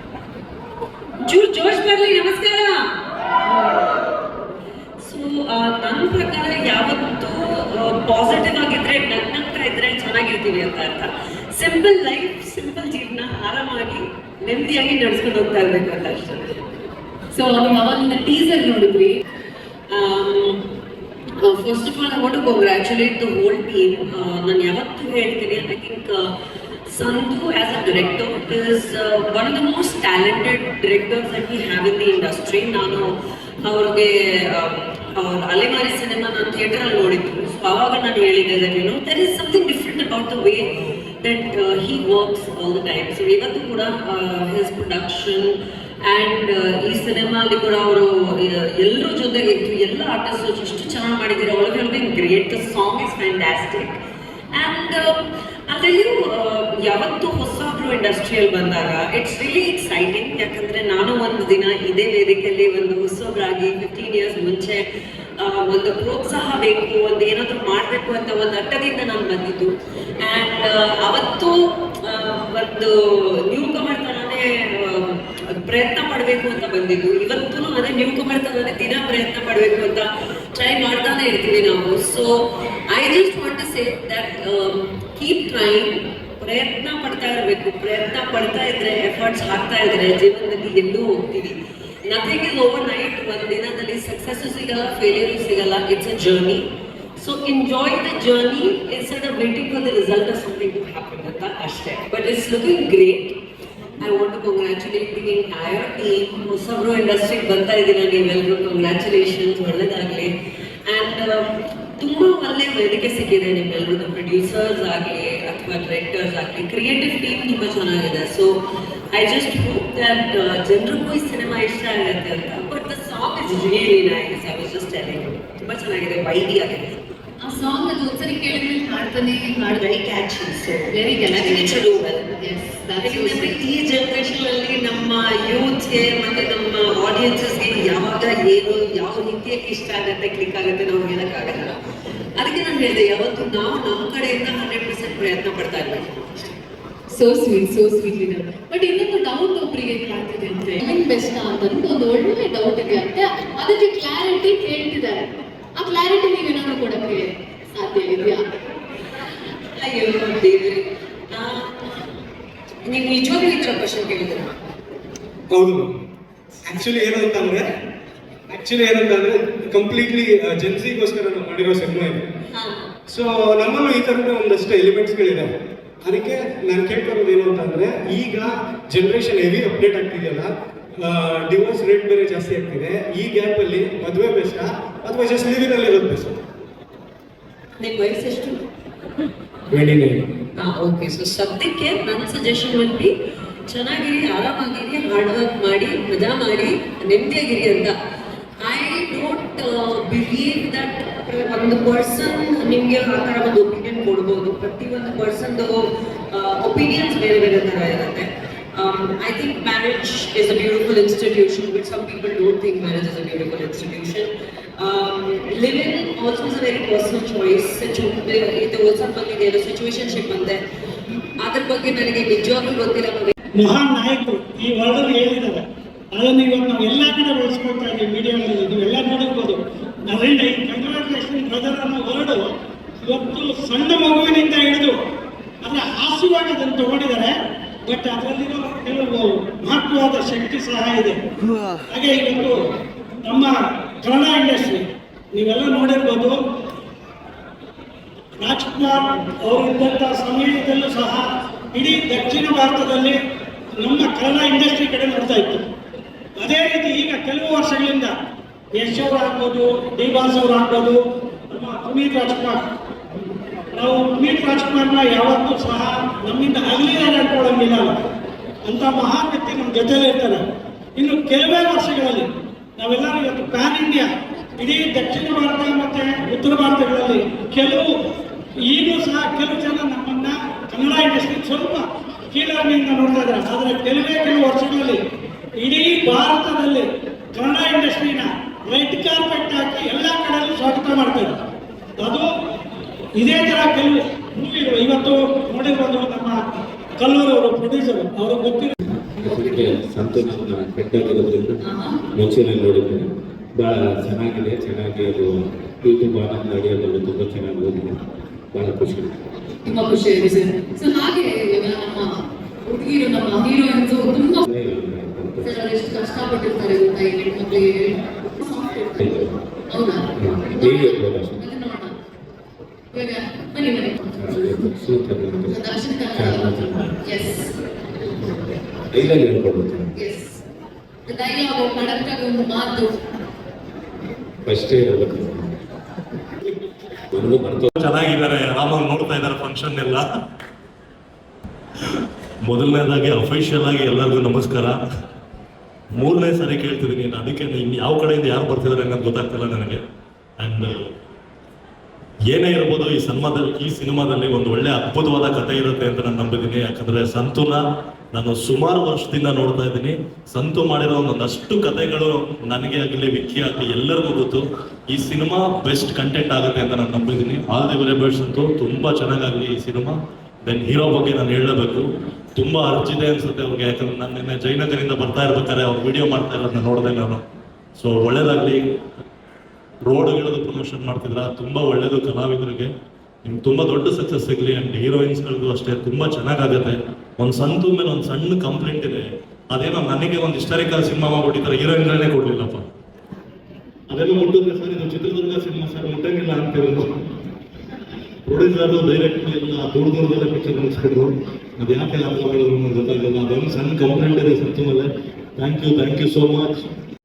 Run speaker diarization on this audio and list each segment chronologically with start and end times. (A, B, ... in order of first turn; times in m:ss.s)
0:01.2-0:02.9 A
0:05.0-0:16.6 A
0:17.3-0:19.2 B
0:19.9-0:20.6 A
0:21.4-0:26.3 A
0:26.9-0:40.7 A
0:41.2-0:54.0 A
0:54.5-0:55.2 A
0:55.7-1:04.9 A
1:05.4-1:36.7 A
1:37.2-1:43.4 A
1:44.0-1:50.3 A
1:50.9-1:58.6 A
1:59.1-2:06.8 A
2:07.4-2:09.9 B
2:09.8-2:12.3 A
2:10.9-2:13.6 B
2:13.0-2:21.8 A
2:22.4-2:26.6 A
2:27.1-2:38.5 B
2:39.8-2:41.8 A
2:42.9-2:44.6 A
2:45.5-2:46.0 C
2:46.6-2:47.6 C
2:48.5-2:52.3 C
2:52.5-2:52.9 A
2:53.1-3:06.4 C
3:07.8-3:08.6 A
3:09.7-3:10.3 C
3:10.6-3:13.1 A
3:13.7-3:18.0 A
3:18.6-3:40.6 A
3:41.4-3:43.3 A
3:43.6-3:52.5 D
3:53.0-3:55.0 D
3:55.6-4:01.2 D
4:01.9-4:02.6 D
4:03.2-4:06.4 D
4:08.4-4:13.2 D
4:13.8-4:15.7 D
4:16.4-4:18.2 D
4:18.7-4:22.6 D
4:23.7-4:28.0 D
4:28.6-4:30.4 D
4:31.0-4:38.0 D
4:38.6-4:45.0 D
4:45.6-4:51.4 D
4:52.0-4:52.3 D
4:53.2-4:56.4 D
4:57.0-4:58.8 D
4:58.9-5:01.6 E
5:01.6-5:02.0 B
5:02.2-5:08.0 E
5:08.5-5:09.2 E
5:09.6-5:14.4 B
5:14.5-5:15.6 E
5:15.4-5:19.0 B
5:19.0-5:19.3 E
5:19.7-5:21.9 B
5:20.2-5:21.4 E
5:22.9-5:24.7 B
5:24.1-5:25.6 E
5:25.5-5:27.5 B
5:26.1-5:26.9 E
5:28.9-5:29.9 E
5:30.0-5:30.4 B
5:31.1-5:32.9 B
5:34.5-5:35.6 E
5:37.1-5:37.7 E
5:37.8-5:40.1 F
5:42.4-5:44.8 F
5:45.9-5:49.8 F
5:50.4-5:50.9 F
5:52.3-5:57.6 F
5:58.1-6:17.2 F
6:17.8-6:18.7 F
6:19.9-6:22.7 F
6:23.2-6:32.6 F
6:33.9-6:36.9 F
6:38.3-6:46.5 F